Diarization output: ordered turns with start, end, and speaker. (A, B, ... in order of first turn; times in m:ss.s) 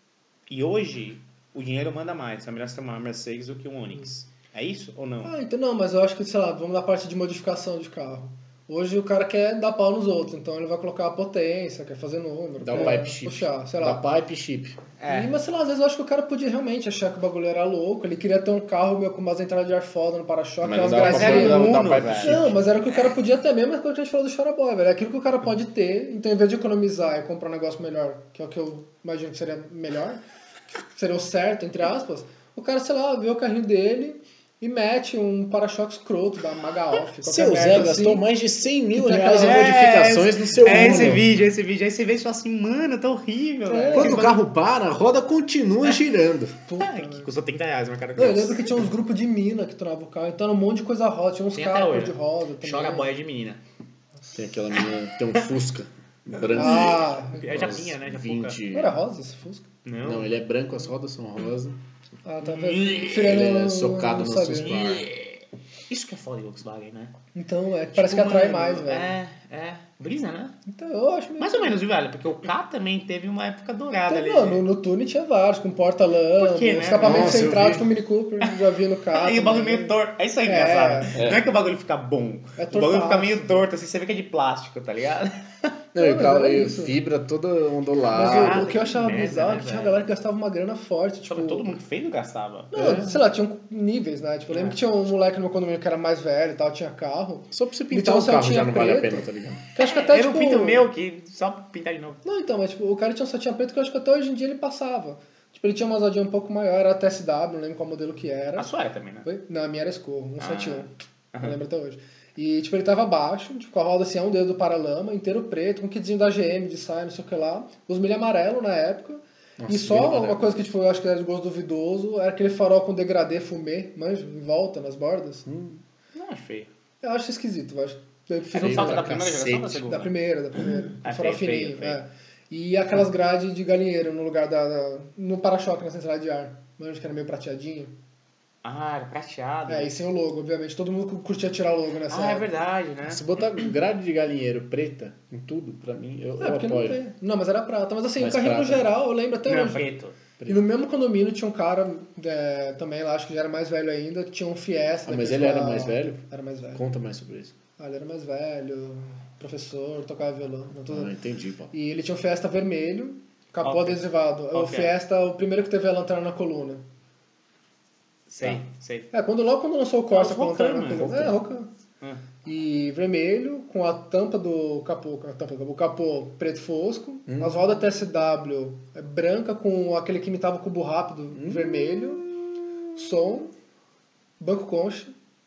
0:00.5-0:05.3 A
0:05.2-0:14.0 B
0:12.6-0:14.8 C
0:15.0-0:15.4 A
0:15.1-0:30.2 B
0:20.6-0:22.6 C
0:20.9-0:22.4 A
0:30.8-0:38.3 B
0:37.2-0:41.3 C
0:38.9-0:39.8 B
0:39.3-0:44.4 A
0:40.7-0:41.2 B
0:43.7-0:44.3 B
0:43.9-0:46.6 C
0:46.7-0:47.3 B
0:46.8-0:48.8 A
0:48.2-0:53.1 B
0:51.5-0:53.6 A
0:54.3-0:59.0 C
0:56.4-0:58.6 A
0:56.5-0:57.8 B
0:58.7-0:59.7 B
0:59.8-1:00.3 A
1:00.0-1:01.8 C
1:02.2-1:04.7 B
1:02.4-1:03.2 A
1:03.1-1:05.1 C
1:04.6-1:05.4 A
1:05.9-1:07.2 A
1:07.4-1:09.2 B
1:07.9-1:10.6 A
1:10.7-1:11.8 B
1:11.4-1:14.6 A
1:14.1-1:21.2 B
1:16.4-1:17.5 A
1:17.0-1:17.9 C
1:19.1-1:25.7 A
1:21.2-1:21.4 C
1:22.6-1:23.6 B
1:25.9-1:28.7 C
1:26.0-1:27.0 B
1:28.1-1:31.7 B
1:28.2-1:30.1 A
1:31.3-1:33.0 A
1:32.7-1:40.9 B
1:32.8-1:33.2 C
1:34.5-1:34.8 A
1:37.5-1:39.6 C
1:39.8-1:42.2 A
1:42.2-1:48.7 B
1:48.6-1:49.3 A
1:49.2-1:50.9 B
1:50.4-1:51.6 A
1:51.4-2:05.4 B
1:59.6-2:00.7 C
2:05.5-2:05.8 C
2:06.1-2:06.7 A
2:07.0-2:09.2 B
2:08.5-2:12.0 A
2:08.6-2:09.8 C
2:09.8-2:18.0 B
2:18.6-2:19.9 A
2:19.7-2:22.5 B
2:22.1-2:23.7 A
2:23.0-2:27.0 C
2:26.4-2:29.9 B
2:28.2-2:28.9 C
2:29.5-2:30.2 A
2:30.4-2:30.6 C
2:30.5-2:36.8 B
2:35.1-2:37.5 C
2:37.8-2:41.1 B
2:40.9-2:41.7 C
2:41.7-2:46.8 B
2:43.6-2:44.9 A
2:48.3-2:49.1 A
2:49.1-2:51.7 B
2:50.1-2:51.3 A
2:51.0-2:51.3 C
2:52.4-3:02.2 B
2:57.3-2:57.6 C
3:01.3-3:02.3 C
3:03.0-3:03.5 B
3:04.4-3:05.1 B